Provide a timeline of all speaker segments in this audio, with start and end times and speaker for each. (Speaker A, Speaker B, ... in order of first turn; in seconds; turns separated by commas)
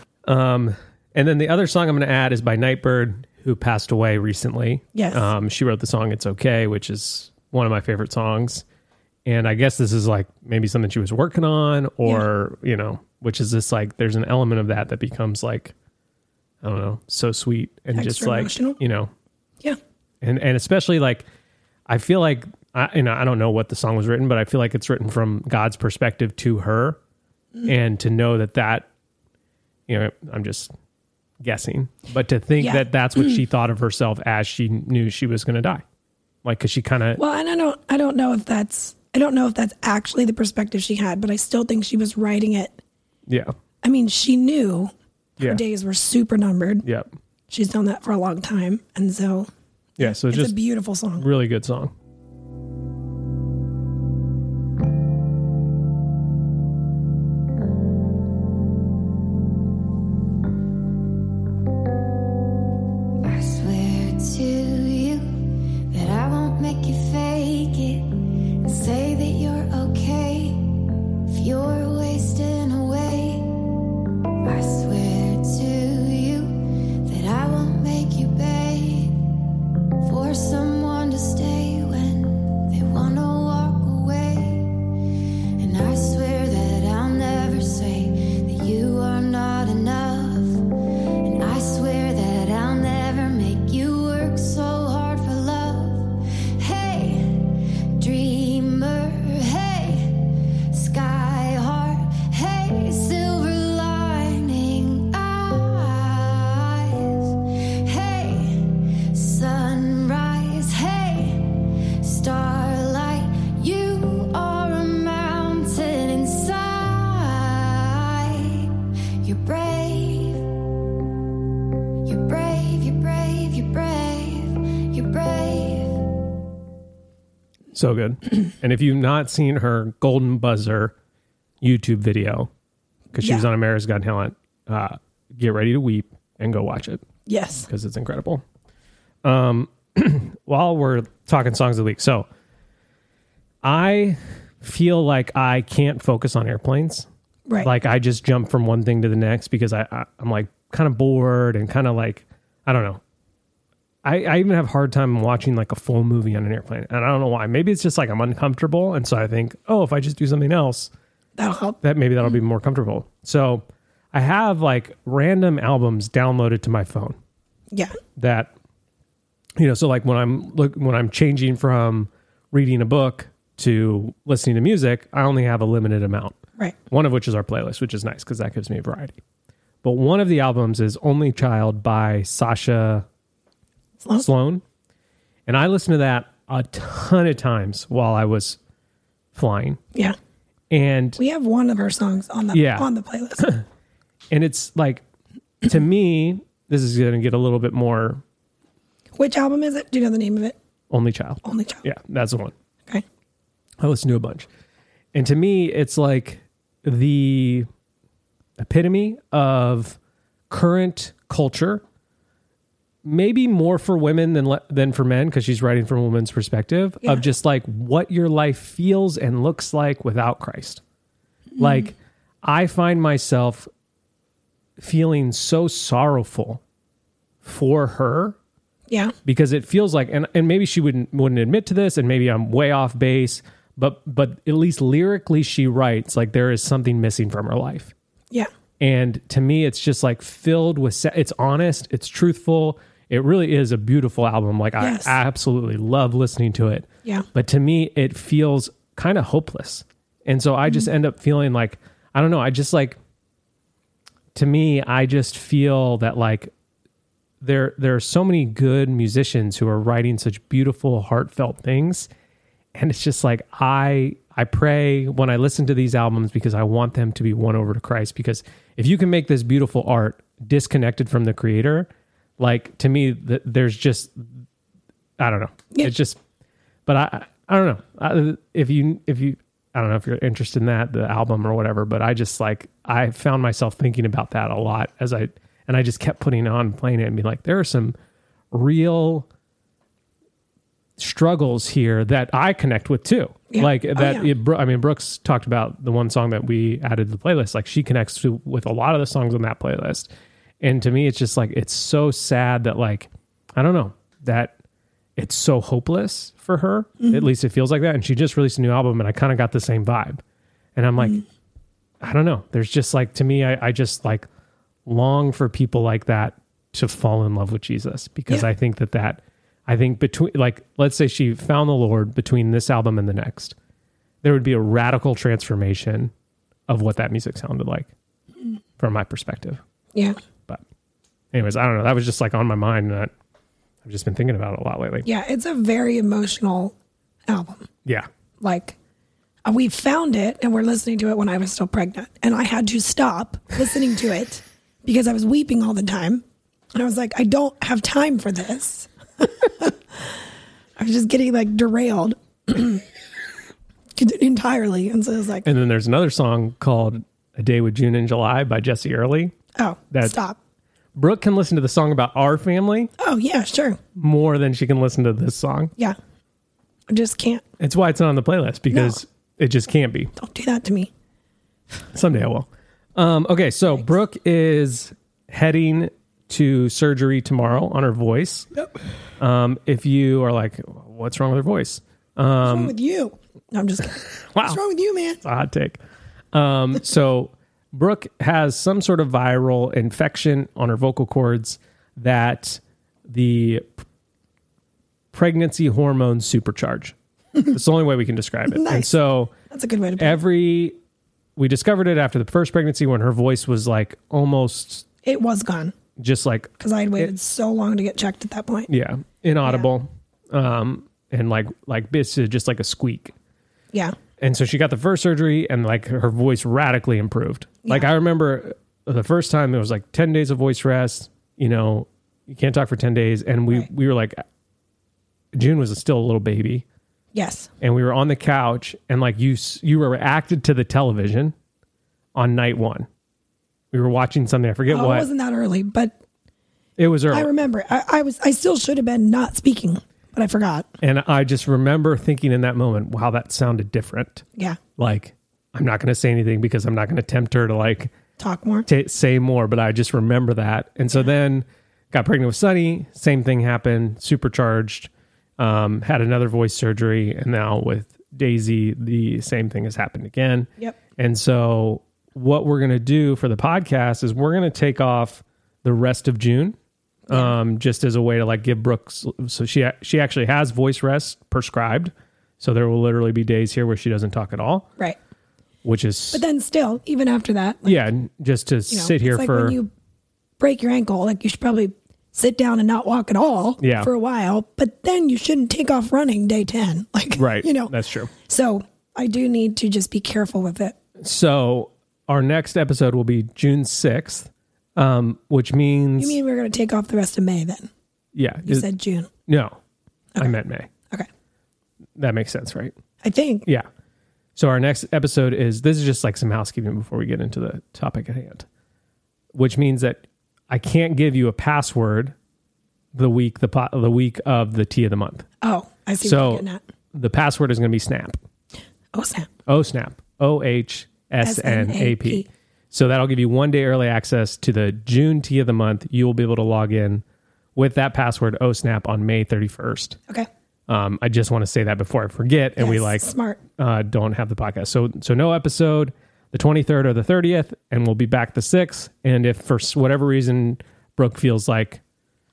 Speaker A: 0.3-8.6, Speaker B: 4.9-5.3, Speaker A: 9.3-15.7, Speaker A: 16.6-19.1, Speaker B: 17.9-18.8, Speaker A: 20.2-21.3, Speaker A: 21.9-27.0, Speaker A: 27.7-28.9, Speaker A: 29.9-30.7, Speaker A: 31.4-35.8, Speaker B: 32.6-32.9, Speaker A: 36.4-37.2, Speaker B: 37.2-42.8, Speaker A: 43.3-43.5, Speaker B: 43.8-46.9, Speaker B: 47.5-51.2, Speaker A: 50.0-50.6, Speaker A: 51.2-51.9, Speaker C: 63.2-70.7, Speaker C: 71.3-73.6, Speaker C: 74.4-79.2, Speaker C: 80.0-84.9, Speaker C: 85.6-120.5, Speaker C: 122.0-126.1, Speaker A: 127.7-130.9, Speaker A: 131.6-132.5, Speaker A: 133.1-137.0, Speaker B: 133.2-133.5, Speaker B: 137.3-137.7, Speaker A: 137.7-138.4, Speaker A: 139.2-142.3, Speaker A: 143.6-147.1, Speaker A: 147.6-153.0, Speaker A: 154.0-160.9, Speaker B: 161.4-161.8, Speaker A: 161.8-167.2, Speaker B: 167.7-168.0, Speaker A: 168.2-168.5, Speaker A: 169.6-176.4, Speaker A: 176.9-179.2, Speaker A: 179.8-183.1, Speaker B: 184.0-184.2, Speaker A: 184.2-184.6, Speaker A: 185.5-188.6, Speaker A: 189.3-189.8, Speaker A: 190.7-191.2, Speaker B: 191.2-193.5, Speaker A: 192.5-192.9, Speaker A: 194.3-195.0, Speaker A: 195.6-198.2, Speaker B: 199.2-200.6, Speaker A: 200.9-202.5, Speaker B: 201.4-201.8, Speaker A: 203.8-204.5, Speaker A: 205.1-207.7, Speaker A: 208.6-210.0, Speaker A: 210.5-211.8, Speaker A: 213.0-220.8, Speaker A: 221.6-223.7, Speaker A: 224.8-226.6, Speaker A: 227.4-228.4, Speaker B: 228.9-229.2, Speaker A: 229.2-237.9, Speaker A: 238.8-253.0, Speaker B: 244.8-245.2, Speaker A: 254.3-256.5, Speaker A: 257.4-262.1, Speaker A: 262.8-274.3, Speaker A: 275.2-276.2, Speaker A: 276.9-288.0, Speaker A: 288.5-289.3, Speaker A: 291.0-300.1, Speaker B: 293.5-294.3, Speaker A: 300.6-304.5, Speaker A: 305.2-310.2, Speaker A: 310.8-311.2, Speaker A: 312.0-314.3, Speaker A: 314.9-323.6, Speaker A: 324.2-326.1, Speaker A: 326.7-327.9, Speaker A: 328.8-329.6, Speaker A: 331.3-333.1, Speaker A: 333.8-335.1, Speaker B: 335.1-336.7, Speaker B: 337.3-337.7, Speaker B: 338.4-338.8, Speaker B: 339.4-346.2, Speaker B: 346.8-350.2, Speaker B: 350.8-352.8, Speaker B: 354.0-355.5, Speaker A: 355.4-359.4, Speaker B: 359.6-360.4, Speaker A: 359.9-360.2, Speaker A: 361.0-362.9, Speaker B: 363.0-363.8, Speaker A: 364.0-365.7, Speaker B: 366.9-367.4, Speaker A: 367.6-370.1, Speaker B: 368.7-369.0, Speaker B: 370.2-370.9, Speaker A: 371.9-378.5, Speaker A: 379.2-382.7, Speaker B: 382.4-385.2, Speaker A: 384.2-384.6, Speaker A: 385.2-385.8, Speaker A: 386.3-393.8, Speaker A: 395.1-399.3, Speaker B: 398.5-400.2, Speaker A: 400.0-400.8, Speaker A: 401.4-404.9, Speaker B: 405.0-405.8, Speaker A: 406.0-407.1, Speaker B: 406.6-408.7, Speaker A: 408.7-413.1, Speaker A: 414.2-424.2, Speaker A: 425.3-426.6, Speaker B: 427.1-427.5, Speaker A: 427.6-431.3, Speaker A: 432.1-432.9, Speaker A: 433.7-435.1, Speaker B: 434.7-436.0, Speaker A: 436.8-437.3, Speaker B: 437.1-440.7, Speaker A: 440.8-444.3, Speaker A: 444.8-447.9, Speaker B: 448.2-448.7, Speaker A: 448.7-466.6, Speaker B: 467.1-467.3, Speaker A: 467.1-474.7, Speaker A: 475.6-476.2, Speaker B: 476.1-477.8, Speaker A: 477.7-479.6, Speaker B: 478.7-479.7, Speaker B: 480.4-490.8, Speaker A: 483.6-483.9, Speaker A: 487.2-488.1, Speaker A: 491.0-496.2, Speaker B: 496.0-497.7, Speaker A: 498.1-498.7, Speaker B: 498.5-499.1, Speaker A: 499.3-499.6, Speaker A: 500.2-500.7, Speaker A: 502.0-502.8, Speaker B: 503.0-503.5, Speaker A: 504.4-508.5, Speaker A: 509.3-512.1, Speaker A: 512.9-515.3, Speaker B: 515.4-516.6, Speaker A: 516.0-518.2, Speaker B: 518.9-519.3, Speaker A: 519.5-527.0, Speaker B: 521.2-522.3, Speaker A: 527.6-530.0, Speaker A: 530.7-541.8, Speaker B: 532.6-533.4